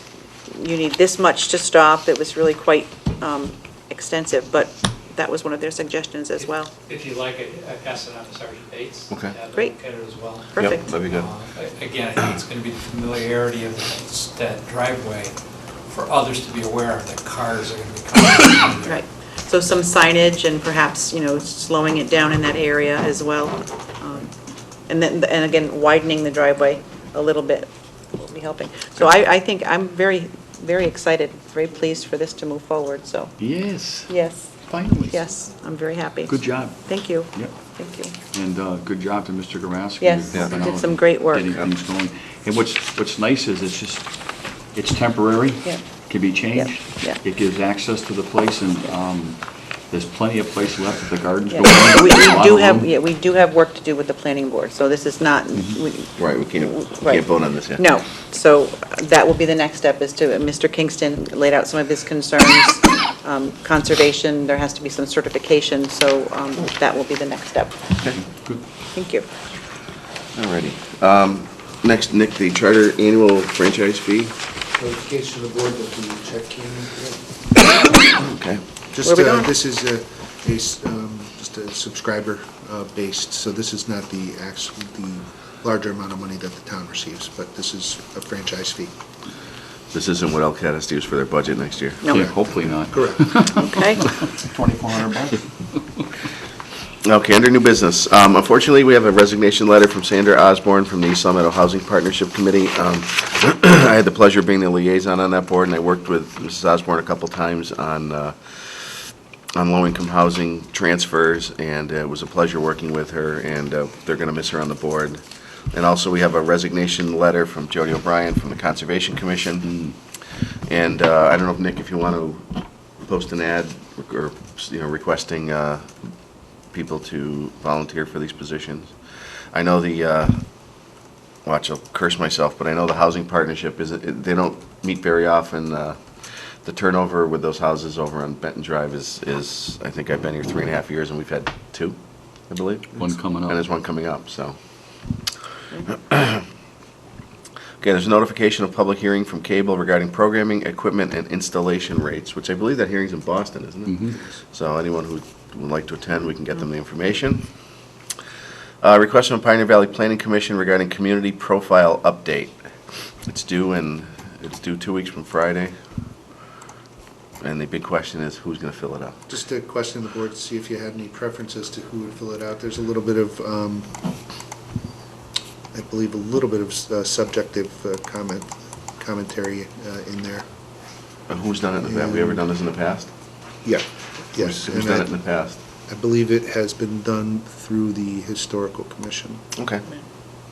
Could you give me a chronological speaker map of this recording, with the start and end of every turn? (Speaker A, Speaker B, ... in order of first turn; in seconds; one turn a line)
Speaker A: 0.5-6.7
Speaker B: 6.4-15.3
Speaker A: 9.5-10.8
Speaker C: 10.6-11.3
Speaker B: 15.9-19.0
Speaker A: 18.9-24.3
Speaker A: 24.9-33.3
Speaker D: 33.4-35.2
Speaker A: 34.1-38.1
Speaker D: 36.3-37.5
Speaker D: 38.3-44.1
Speaker A: 40.0-41.5
Speaker D: 44.7-52.9
Speaker A: 46.6-47.2
Speaker A: 51.5-67.8
Speaker C: 56.2-57.8
Speaker D: 68.2-68.6
Speaker A: 68.9-69.3
Speaker C: 70.3-74.3
Speaker E: 74.7-77.2
Speaker C: 78.2-78.6
Speaker E: 78.9-88.9
Speaker A: 79.0-79.5
Speaker C: 89.9-92.0
Speaker A: 92.0-92.3
Speaker D: 92.0-94.2
Speaker E: 92.9-93.2
Speaker A: 93.6-94.0
Speaker E: 94.4-95.2
Speaker C: 97.0-119.8
Speaker C: 120.7-126.1
Speaker C: 126.7-129.0
Speaker C: 129.5-130.9
Speaker C: 131.4-142.0
Speaker C: 142.5-144.6
Speaker D: 142.9-143.6
Speaker C: 146.1-146.4
Speaker C: 147.8-157.5
Speaker D: 153.8-154.2
Speaker C: 158.8-162.7
Speaker C: 163.2-165.7
Speaker C: 167.4-169.2
Speaker E: 169.3-174.0
Speaker E: 175.7-180.4
Speaker C: 181.3-183.1
Speaker E: 181.8-182.4
Speaker E: 183.6-185.1
Speaker C: 184.3-185.6
Speaker E: 185.9-189.4
Speaker C: 189.6-189.8